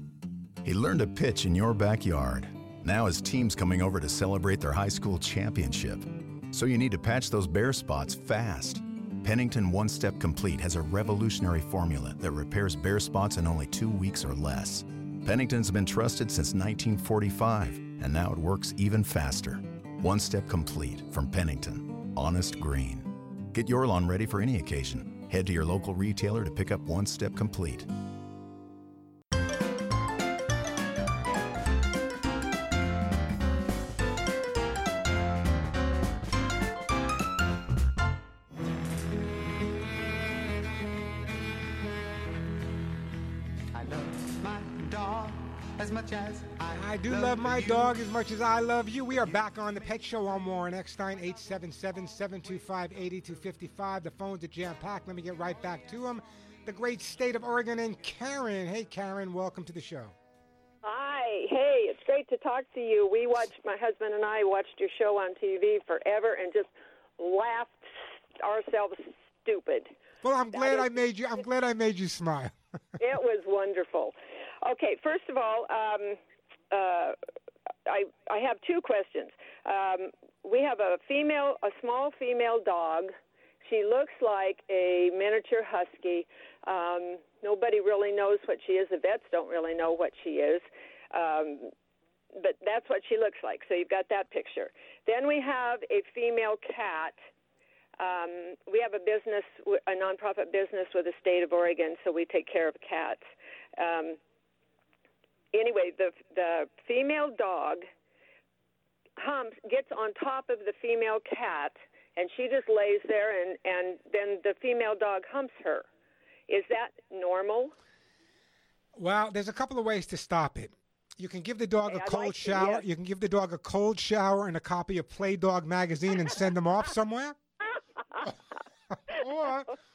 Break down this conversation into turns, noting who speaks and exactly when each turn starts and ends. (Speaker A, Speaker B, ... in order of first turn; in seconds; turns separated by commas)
Speaker A: 0.6-27.9, Speaker B: 46.7-60.1, Speaker C: 60.8-67.8, Speaker C: 68.4-69.9, Speaker B: 70.2-72.5, Speaker C: 70.5-71.1, Speaker C: 73.0-76.2, Speaker C: 76.7-77.2, Speaker C: 77.9-83.1, Speaker C: 83.6-91.7, Speaker C: 92.4-97.2, Speaker C: 98.0-103.2, Speaker C: 103.8-104.2, Speaker C: 105.5-107.8, Speaker C: 109.2-115.9, Speaker C: 116.5-117.7, Speaker B: 119.0-127.4, Speaker C: 121.9-122.8, Speaker B: 129.1-129.7